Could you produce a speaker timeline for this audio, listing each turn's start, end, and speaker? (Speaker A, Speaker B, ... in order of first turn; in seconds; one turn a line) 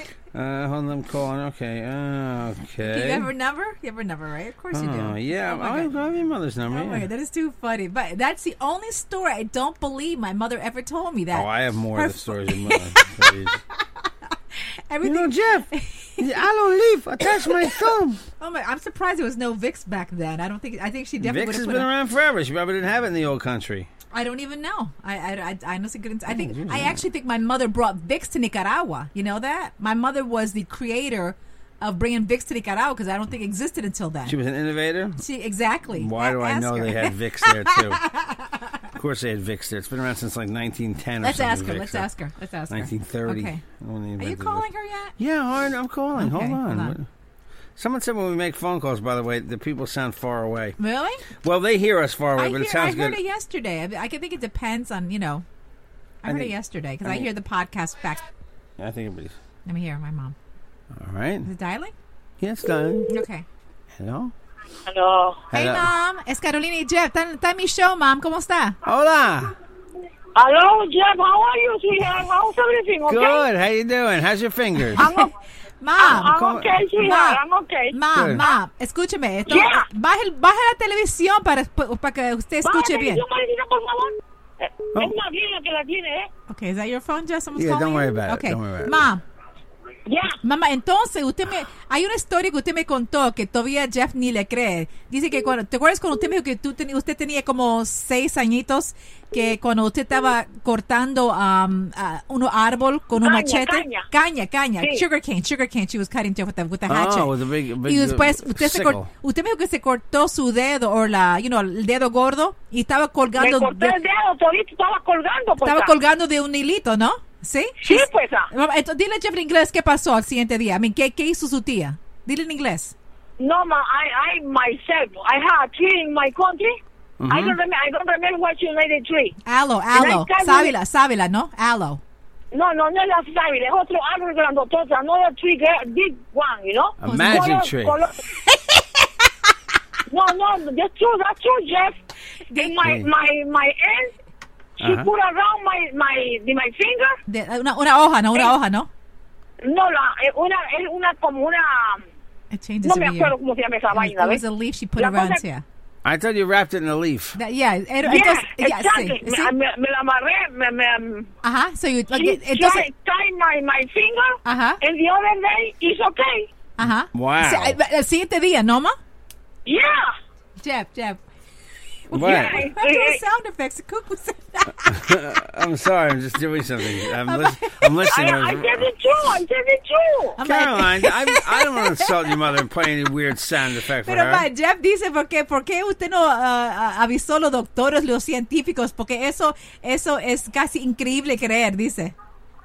Speaker A: 0.3-3.3
Speaker B: 2.8-5.9
Speaker A: 4.7-7.1
Speaker B: 6.7-13.3
Speaker A: 11.3-13.6
Speaker B: 14.9-16.3
Speaker A: 15.0-18.2
Speaker B: 17.2-17.8
Speaker B: 18.4-21.9
Speaker A: 21.2-23.9
Speaker B: 24.1-34.4
Speaker A: 26.3-27.0
Speaker A: 34.3-35.2
Speaker B: 35.2-38.7
Speaker A: 36.0-38.1
Speaker A: 39.0-42.1
Speaker B: 41.2-43.6
Speaker A: 42.7-44.6
Speaker B: 44.2-45.2
Speaker A: 45.2-47.1
Speaker B: 46.2-47.0
Speaker A: 47.8-50.8
Speaker B: 50.8-51.3
Speaker A: 51.4-53.2
Speaker B: 52.4-55.5
Speaker B: 56.2-58.2
Speaker A: 56.2-57.3
Speaker A: 58.8-59.4
Speaker B: 59.7-60.4
Speaker A: 60.9-61.5
Speaker B: 61.4-61.9
Speaker A: 62.4-63.1
Speaker B: 63.1-63.5
Speaker A: 64.0-64.3
Speaker C: 64.9-65.5
Speaker A: 65.5-65.9
Speaker B: 65.5-68.8
Speaker A: 68.8-69.5
Speaker C: 70.3-73.5
Speaker A: 73.1-75.0
Speaker B: 74.9-75.3
Speaker C: 75.0-75.3
Speaker B: 75.8-76.3
Speaker C: 76.0-78.5
Speaker A: 76.0-76.8
Speaker B: 77.0-83.2
Speaker A: 78.2-78.4
Speaker C: 79.5-79.9
Speaker C: 82.7-86.3
Speaker B: 86.5-89.2
Speaker A: 87.6-89.1
Speaker C: 90.1-90.4
Speaker B: 90.4-107.3
Speaker C: 103.2-104.1
Speaker A: 106.9-109.1
Speaker B: 107.8-114.0
Speaker C: 113.4-115.9
Speaker B: 115.6-123.0
Speaker C: 117.8-118.5
Speaker C: 123.4-126.8
Speaker A: 127.2-127.6
Speaker C: 127.3-129.4
Speaker B: 129.4-132.0
Speaker C: 129.9-130.7
Speaker C: 132.5-138.2
Speaker A: 137.0-138.0
Speaker B: 137.1-137.6
Speaker B: 138.5-139.1
Speaker C: 140.1-142.0
Speaker B: 142.5-142.8
Speaker C: 142.6-144.1
Speaker A: 142.8-143.1
Speaker A: 144.8-145.1
Speaker C: 144.8-147.2
Speaker B: 147.3-148.9
Speaker C: 149.6-152.1
Speaker B: 152.5-153.3
Speaker C: 152.8-154.4
Speaker B: 153.9-155.6
Speaker C: 155.0-155.4
Speaker A: 156.1-157.4
Speaker B: 157.3-159.5
Speaker C: 158.1-161.3
Speaker B: 161.4-162.9
Speaker C: 162.1-166.5
Speaker B: 164.4-164.8
Speaker B: 166.8-169.0
Speaker A: 167.1-167.8
Speaker C: 169.7-170.1
Speaker B: 170.6-171.2
Speaker B: 172.1-175.2
Speaker C: 172.1-173.2
Speaker A: 172.1-172.6
Speaker A: 174.8-178.9
Speaker B: 177.0-178.0
Speaker C: 178.1-180.4
Speaker B: 180.4-182.4
Speaker A: 180.4-184.5
Speaker B: 184.0-192.1